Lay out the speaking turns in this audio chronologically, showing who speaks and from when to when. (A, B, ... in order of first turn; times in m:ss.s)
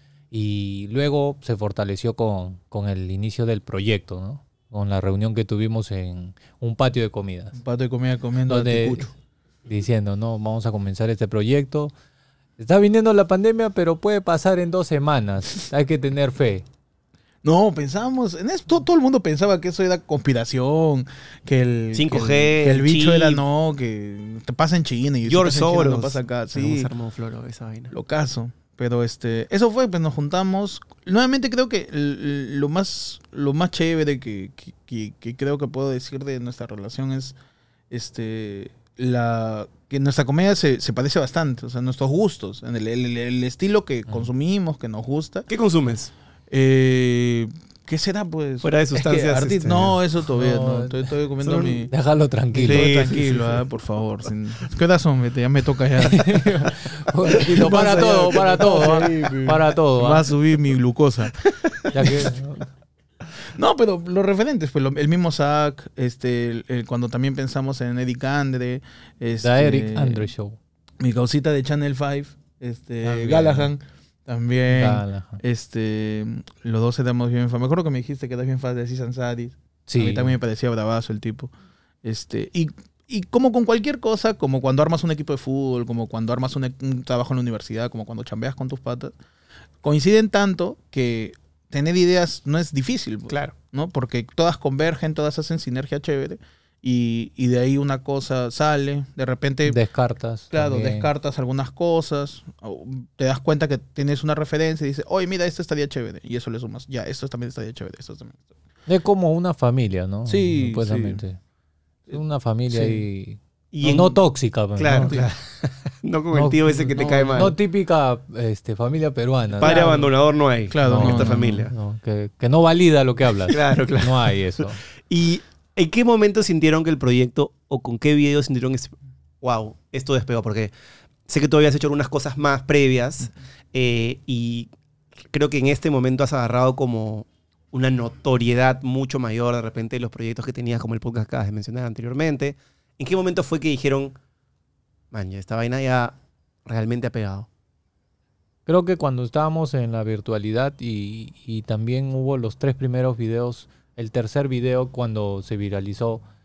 0:00.3-0:07.6 A
0:07.5-0:09.1 B
0:08.5-0:09.1 A
0:09.6-0:11.9 A
0:12.6-0:16.6 A
0:17.4-0:26.9 B
0:21.9-0:23.4 C
0:25.3-0:27.9 C
0:27.9-0:37.4 B
0:37.9-0:45.5 B
0:45.5-0:46.1 C
0:46.5-0:51.9 B
0:48.6-0:49.9 C
0:50.3-0:51.1 A
0:51.4-0:51.8 C
0:51.8-0:52.9 A
0:52.5-0:56.6 B
0:52.6-0:53.6 C
0:56.0-1:00.3 A
0:57.3-1:01.3 B
1:01.9-1:02.2 B
1:01.9-1:02.7 A
1:03.5-1:10.3 B
1:09.4-1:10.6 A
1:11.0-1:21.5 B
1:13.0-1:13.7 A
1:14.7-1:15.4 A
1:19.9-1:20.4 A
1:22.0-1:29.1 B
1:29.8-1:39.8 B
1:33.3-1:33.5 C
1:39.6-1:41.1 A
1:40.5-1:48.5 B
1:48.9-1:51.4 A
1:50.2-1:51.2 B
1:52.1-1:55.2 A
1:52.7-1:53.0 B
1:53.7-1:54.2 C
1:54.8-1:57.5 C
1:56.3-2:00.1 A
1:57.0-1:57.5 B
1:59.6-2:01.7 C
1:59.6-1:59.9 B
2:00.7-2:01.6 B
2:00.8-2:04.8 A
2:03.5-2:10.7 C
2:11.3-2:14.7 C
2:15.3-2:24.1 C
2:25.1-2:26.1 C
2:26.6-2:27.5 C
2:28.6-2:36.2 A